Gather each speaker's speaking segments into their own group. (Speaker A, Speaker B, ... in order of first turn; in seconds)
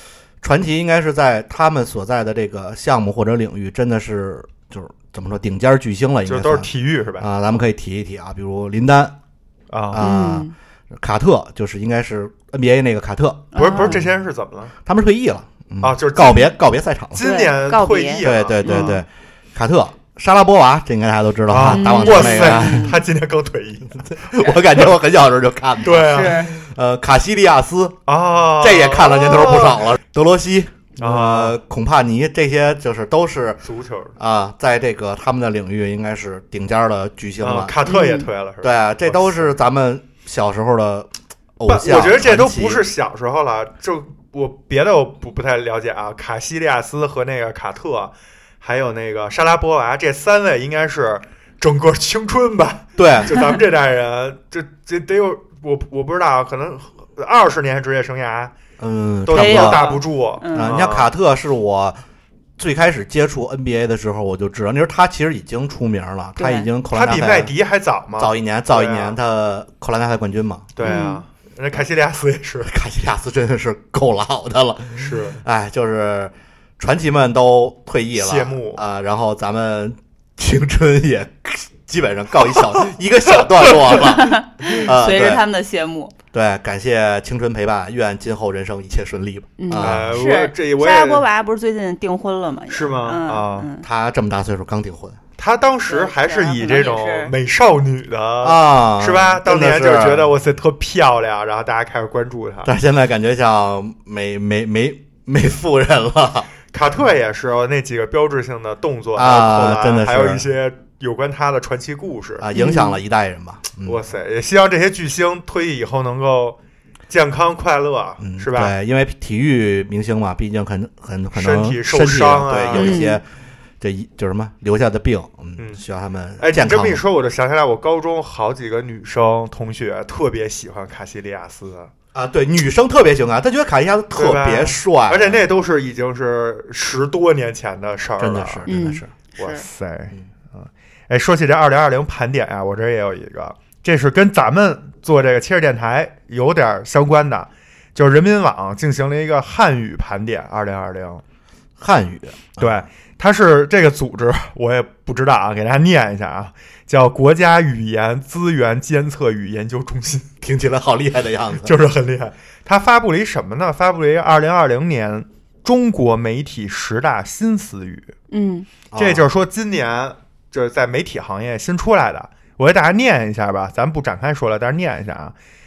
Speaker A: 0.4-9.1, 9.9-14.1, 14.8-17.2, 18.2-22.9, 24.0-28.0, 28.6-33.6, 34.2-37.7, 38.6-42.9, 53.0-53.4, 58.8-59.9, 60.5-62.0, 62.6-67.5, 68.2-70.7, 72.7-85.4, 86.3-90.2, 93.8-95.2, 98.4-100.3, 102.6-106.5, 109.1-110.5, 112.4-114.0, 118.2-123.2, 123.8-127.0, 132.1-135.4, 138.2-139.1, 151.8-152.8, 160.4-161.7, 168.9-169.3
Speaker B: 6.2-7.3, 9.7-10.0, 13.5-14.7, 15.8-16.5, 17.1-18.9, 21.5-24.1, 25.8-26.5, 28.1-29.9, 31.0-31.6, 33.6-34.1, 37.4-39.5, 41.7-58.5, 59.2-61.1, 66.9-69.2, 70.8-72.7, 75.0-75.4, 78.1-78.8, 89.8-91.2, 92.7-93.7, 95.4-102.7, 106.7-112.5, 113.8-116.6, 117.1-118.7, 121.3-123.1, 125.6-125.8, 126.4-131.9, 134.1-138.7, 139.4-151.2, 152.6-160.3, 161.6-168.1, 168.9-175.3
Speaker C: 10.0-10.5, 13.5-14.0, 17.2-19.0, 21.7-23.0, 26.1-26.5, 37.9-38.3, 59.3-60.8, 66.4-66.7, 70.8-71.2, 83.9-86.1, 89.6-93.8, 95.9-97.3, 112.5-113.0, 122.7-123.2, 138.7-139.7, 168.3-168.7